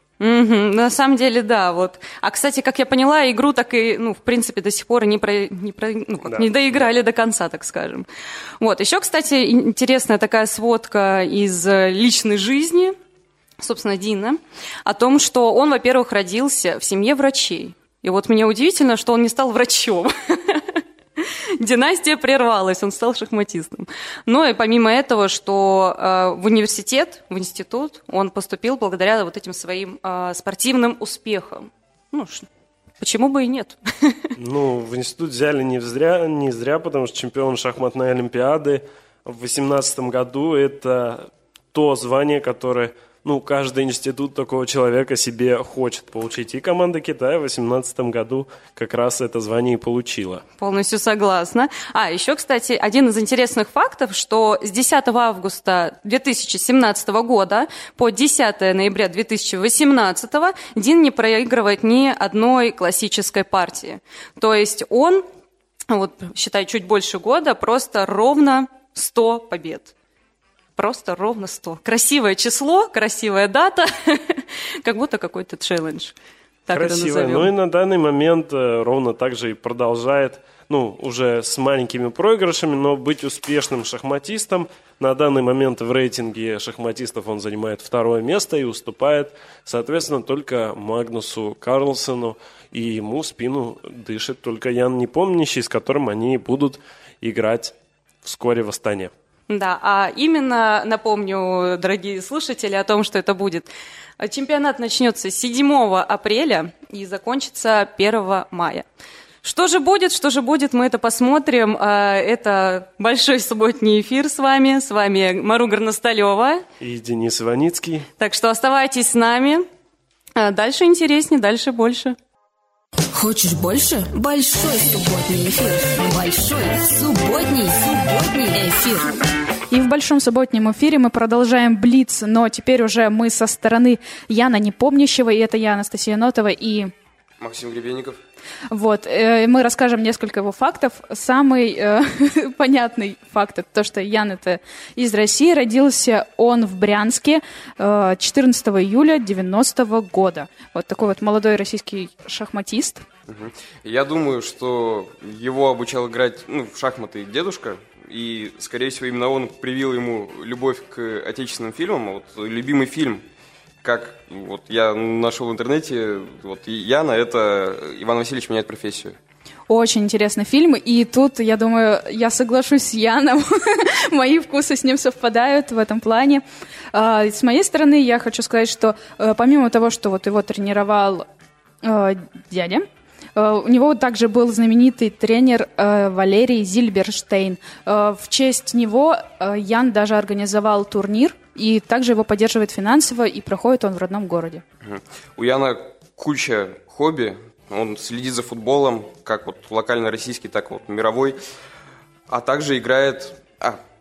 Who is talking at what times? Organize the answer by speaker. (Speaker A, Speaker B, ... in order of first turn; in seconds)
Speaker A: 0.2-8.1, 8.6-12.9, 13.6-32.5, 33.0-34.2, 50.6-65.2, 65.9-69.9, 70.8-76.1, 76.7-77.5, 99.5-108.8, 109.4-116.6, 118.2-119.6, 120.3-122.2
Speaker B: 6.2-6.9, 34.4-50.4, 76.7-99.1, 116.8-118.1
Speaker C: 123.1-129.1
Speaker D: 129.7-136.9, 138.7-153.0, 169.7-181.2, 181.8-194.6
Speaker E: 137.4-138.2, 153.3-163.2, 163.8-169.2, 194.8-201.4, 202.3-203.8